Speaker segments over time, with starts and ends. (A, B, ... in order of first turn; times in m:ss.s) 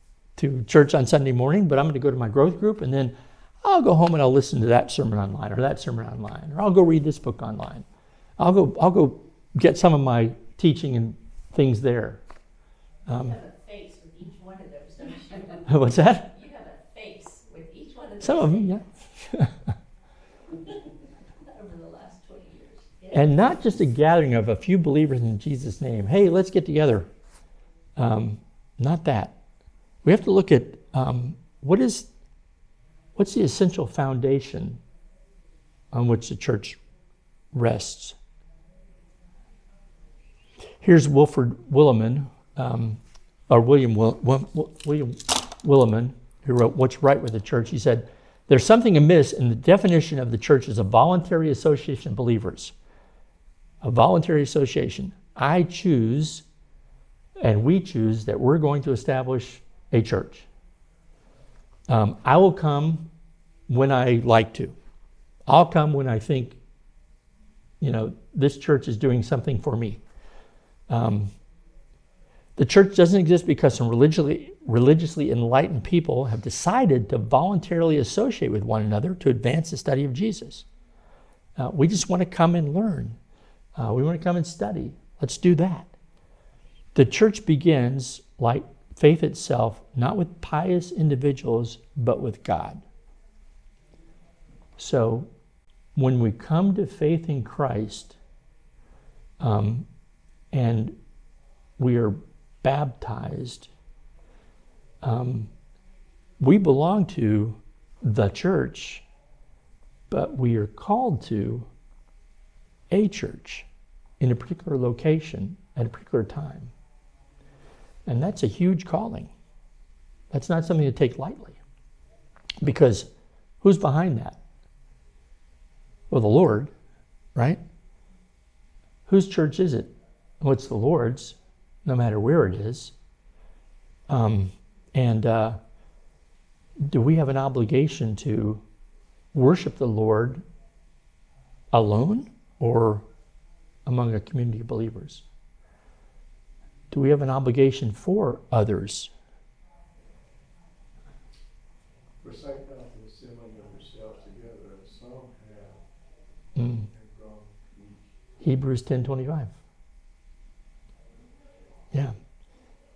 0:00.4-0:07.8 A
0:08.4-0:12.2 A
0:13.1-0:13.3 A
0:13.1-0:18.8 B
0:15.7-0:16.3 A
0:18.2-0:19.5 A
0:21.5-0:23.3 B
0:23.1-0:27.1 A
0:28.0-0:29.4 A
0:30.0-0:32.1 A
0:33.2-0:34.8 A
0:35.9-0:36.8 A
0:37.5-0:38.2 A
0:40.8-0:52.7 A
0:53.8-0:56.4 A
0:57.4-1:00.5 A
1:01.9-1:03.1 A
1:03.7-1:04.7 A
1:05.5-1:06.6 A
1:07.8-1:10.0 A
1:10.9-1:11.3 A
1:12.6-1:20.6 A
1:21.6-1:23.2 A
1:23.8-1:25.9 A
1:26.9-1:32.8 A
1:34.8-1:35.3 A
1:36.0-1:38.2 A
1:39.4-1:39.9 A
1:40.5-1:41.0 A
1:41.8-1:43.7 A
1:45.0-1:45.5 A
1:46.4-1:49.0 A
1:50.1-1:51.7 A
1:52.9-1:53.6 A
1:54.2-1:56.7 A
1:58.0-1:59.3 A
2:00.3-2:01.6 A
2:02.6-2:03.1 A
2:03.6-2:04.4 A
2:06.1-2:06.7 A
2:07.3-2:07.6 A
2:09.1-2:12.9 A
2:14.1-2:15.6 A
2:16.8-2:18.6 A
2:19.3-2:20.4 A
2:21.7-2:23.0 A
2:23.8-2:25.2 A
2:26.9-2:29.1 A
2:32.2-2:35.8 C
2:36.6-2:36.9 A
2:36.7-2:38.1 C
2:38.4-2:39.5 A